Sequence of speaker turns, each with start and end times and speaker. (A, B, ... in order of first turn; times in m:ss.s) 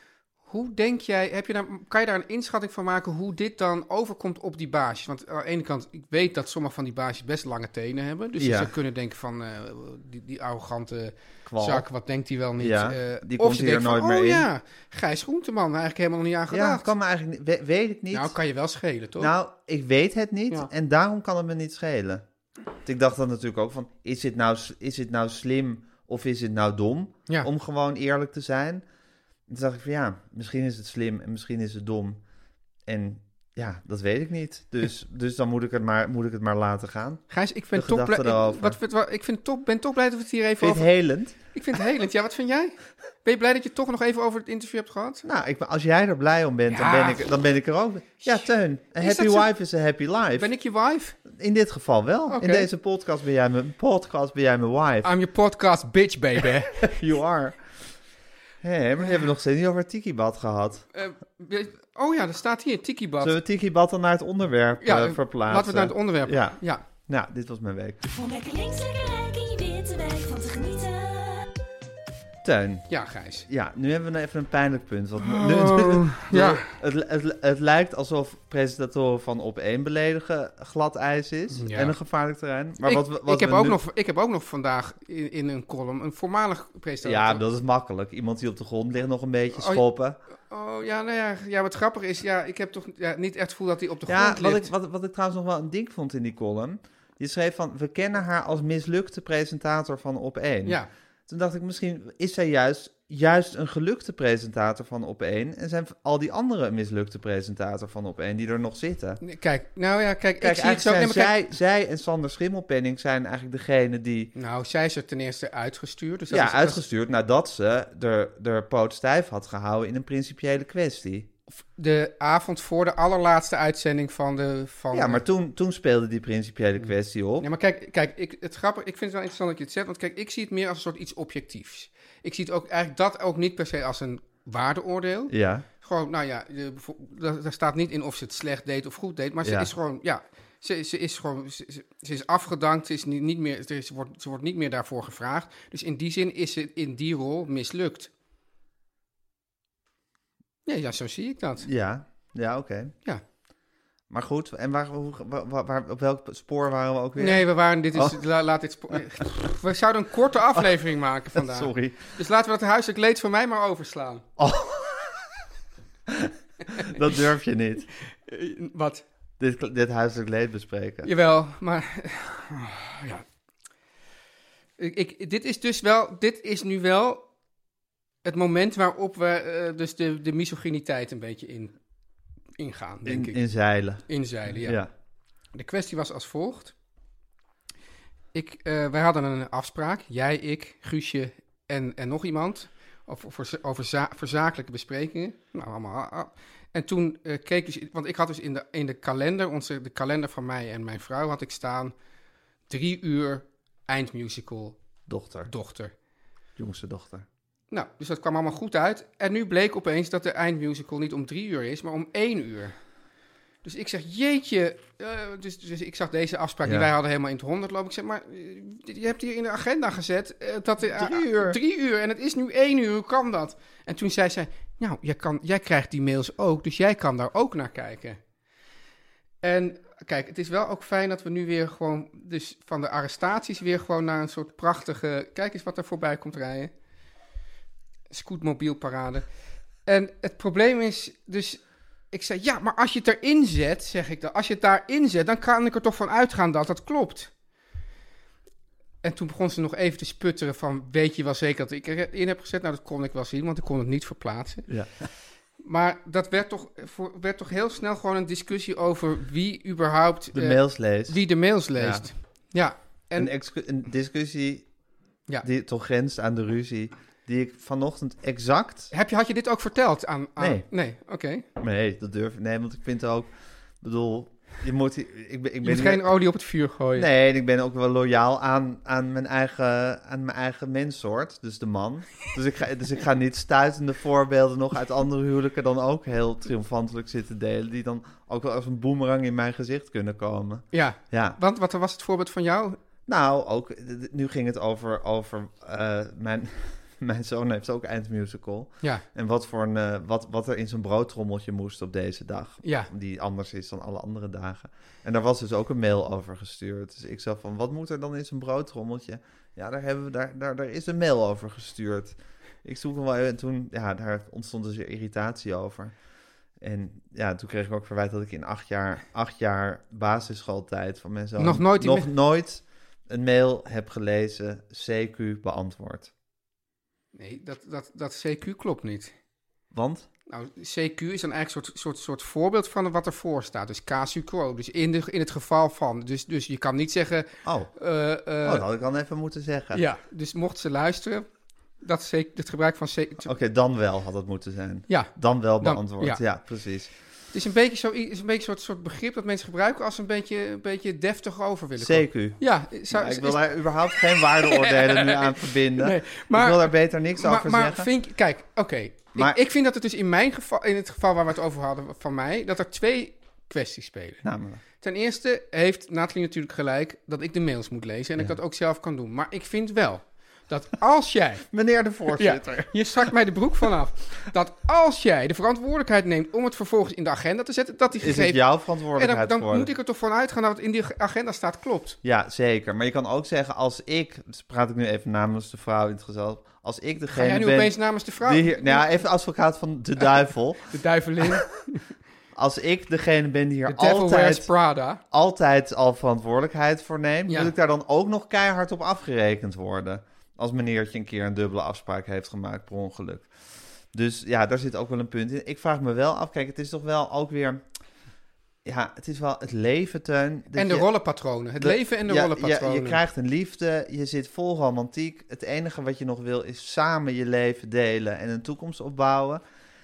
0:00.5-0:16.9 A
0:08.4-0:08.7 B
0:11.5-0:11.9 B
0:12.6-0:14.5 B
0:16.5-0:18.4 B
0:18.1-0:19.3 A
0:19.2-0:22.2 B
0:22.8-0:28.8 B
0:29.5-0:32.2 B
0:32.9-0:38.8 B
0:37.3-0:40.9 A
0:40.6-0:41.4 B
0:41.5-0:45.2 A
0:45.2-0:50.5 B
0:46.7-0:47.3 A
0:48.2-0:49.5 A
0:50.4-0:51.2 A
0:51.3-0:55.1 B
0:52.3-0:52.7 A
0:55.0-0:56.9 A
0:56.8-0:57.6 B
0:58.6-1:00.9 B
1:00.9-1:03.4 A
1:03.2-1:08.0 B
1:04.8-1:06.8 A
1:08.1-1:11.5 C
1:12.4-1:12.9 B
1:12.9-1:13.5 A
1:13.5-1:23.8 B
1:15.2-1:16.7 A
1:21.5-1:22.0 A
1:22.8-1:27.4 A
1:27.0-1:30.2 B
1:29.5-1:29.8 A
1:30.5-1:34.7 A
1:34.1-1:49.2 B
1:49.2-1:51.3 A
1:50.4-1:54.3 B
1:54.4-1:56.8 A
1:56.3-2:01.3 B
2:01.8-2:05.2 A
2:04.9-2:07.5 B
2:07.4-2:28.1 A
2:15.3-2:15.7 B
2:19.4-2:19.7 B
2:30.7-2:31.7 A
2:31.6-2:32.9 B
2:34.1-2:38.2 B
2:37.2-2:44.2 A
2:41.3-2:42.0 B
2:44.4-2:45.2 B
2:46.1-2:47.9 B
2:48.1-2:49.0 A
2:49.4-2:51.1 B
2:51.0-2:53.2 A
2:54.8-2:57.2 A
2:58.2-3:01.8 A
3:02.6-3:03.4 A
3:03.1-3:04.9 B
3:04.0-3:04.8 A
3:05.5-3:06.7 A
3:08.3-3:21.9 A
3:22.7-3:24.8 A
3:25.1-3:25.5 B
3:25.5-3:25.9 A
3:26.6-3:27.3 B
3:27.7-3:32.8 A
3:33.6-3:48.2 A
3:36.6-3:36.9 B
3:40.8-3:41.6 B
3:49.4-3:56.7 A
3:58.1-3:59.3 A
3:59.9-4:07.3 A
4:09.0-4:14.7 A
4:15.6-4:23.3 A
4:20.3-4:21.2 B
4:21.8-4:22.1 B
4:23.2-4:24.7 B
4:25.4-4:28.9 B
4:28.9-4:31.4 A
4:30.4-4:30.6 B
4:31.6-4:33.3 B
4:33.8-4:36.1 B
4:35.6-4:37.1 A
4:37.0-4:51.4 B
4:50.7-4:52.8 A
4:53.1-5:15.9 B
5:02.6-5:02.9 A
5:16.6-5:26.1 B
5:21.4-5:22.1 A
5:27.1-5:29.1 A
5:29.7-5:30.1 B
5:30.3-5:38.6 A
5:37.4-5:37.7 B
5:38.4-5:39.8 B
5:39.7-5:41.3 A
5:41.8-5:43.4 A
5:43.2-5:46.9 B
5:44.9-5:46.2 A
5:47.3-6:04.2 A
5:51.8-5:57.9 B
6:04.2-6:04.6 B
6:04.8-6:11.5 A
6:11.5-6:13.1 B
6:12.1-6:18.4 A
6:18.0-6:19.7 B
6:19.0-6:22.0 A
6:22.0-6:30.7 B
6:27.1-6:28.9 A
6:30.0-6:31.9 A
6:32.4-6:34.5 B
6:33.7-6:35.0 A
6:35.1-6:43.3 B
6:43.9-6:47.6 B
6:48.6-6:50.9 B
6:50.6-6:53.0 A
6:51.6-6:59.4 B